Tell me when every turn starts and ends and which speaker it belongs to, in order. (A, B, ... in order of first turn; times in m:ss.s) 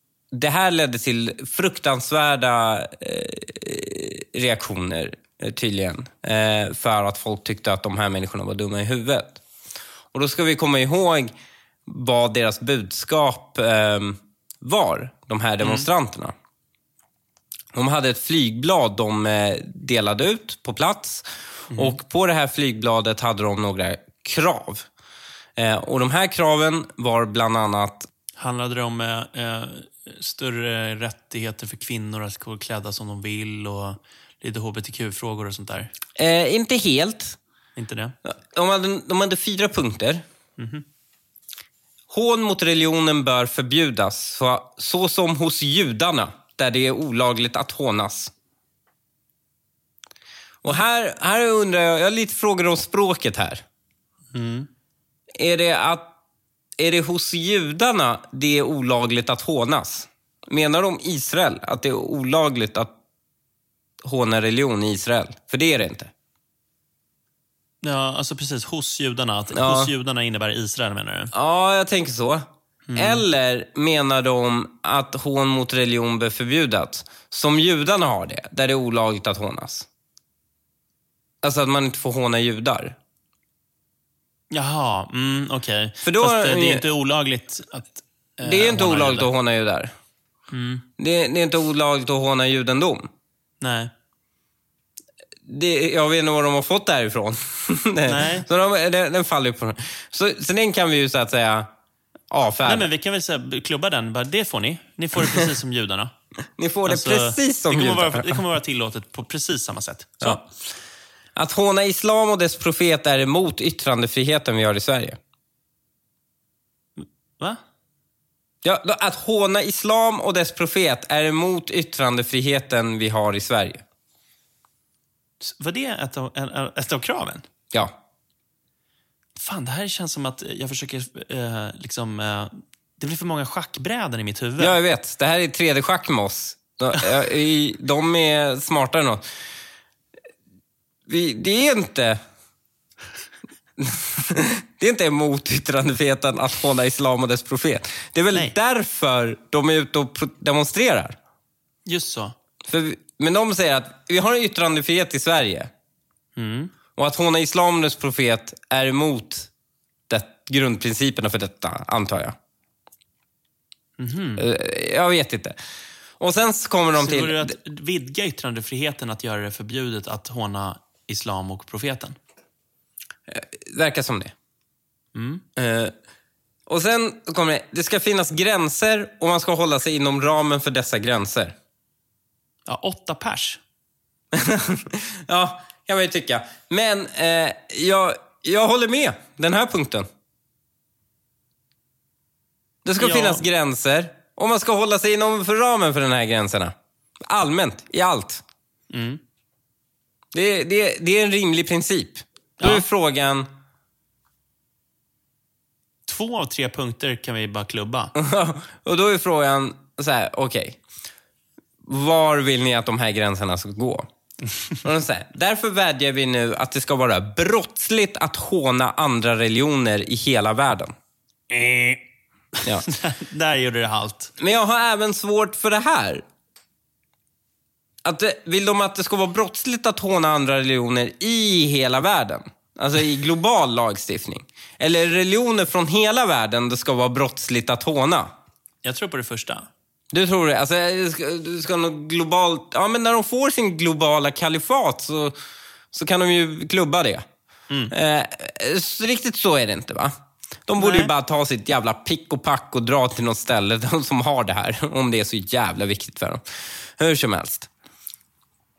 0:00.3-0:09.4 A
0:10.1-0:11.4 A
0:11.9-0:16.3 A
0:15.6-0:15.9 B
0:17.7-0:24.9 A
0:21.7-0:22.0 B
0:25.6-0:28.1 A
0:28.4-0:35.9 B
0:36.2-0:37.4 A
0:37.8-0:38.2 B
0:38.2-0:40.2 A
0:40.6-0:40.8 B
0:42.1-0:48.3 A
0:50.6-0:53.6 A
0:54.3-0:54.7 B
0:55.4-0:56.1 A
0:56.8-1:02.9 A
1:04.0-1:06.1 A
1:07.8-1:11.3 B
1:09.5-1:09.9 A
1:11.3-1:19.9 A
1:12.9-1:13.2 B
1:21.4-1:23.0 A
1:24.5-1:29.3 B
1:26.0-1:26.8 A
1:28.4-1:29.9 A
1:30.5-1:30.8 B
1:31.0-1:33.1 A
1:33.6-1:33.9 B
1:35.5-1:41.7 A
1:38.1-1:38.5 B
1:42.3-1:42.9 A
1:42.6-1:46.1 B
1:46.6-1:48.4 A
1:46.9-1:50.5 B
1:51.4-1:55.2 A
1:57.0-1:57.6 B
1:58.6-2:03.8 A
2:05.4-2:07.4 B
2:09.4-2:14.8 B
2:14.6-2:19.3 A
2:21.1-2:22.2 A
2:23.8-2:31.2 A
2:31.9-2:32.4 B
2:32.6-2:35.7 A
2:36.4-2:36.7 B
2:37.0-2:39.5 A
2:40.1-2:42.4 A
2:44.0-2:44.4 B
2:44.4-2:45.6 A
2:46.2-2:47.5 A
2:47.0-2:52.2 B
2:53.3-2:54.3 A
2:55.2-2:55.4 B
2:55.6-2:55.9 A
2:56.7-3:01.6 A
3:02.7-3:03.6 B
3:04.3-3:10.1 A
3:12.8-3:18.4 A
3:13.0-3:13.4 B
3:18.9-3:19.2 B
3:20.3-3:23.5 A
3:22.6-3:22.8 B
3:26.1-3:28.1 B
3:28.2-3:30.8 A
3:31.8-3:34.1 A
3:34.8-3:40.9 A
3:41.5-3:42.0 B
3:42.9-3:44.3 B
3:44.4-3:46.2 A
3:48.0-3:58.3 A
3:58.8-3:59.7 B
4:00.1-4:05.4 A
4:05.9-4:07.2 A
4:07.9-4:10.1 A
4:10.7-4:17.7 A
4:10.8-4:11.1 B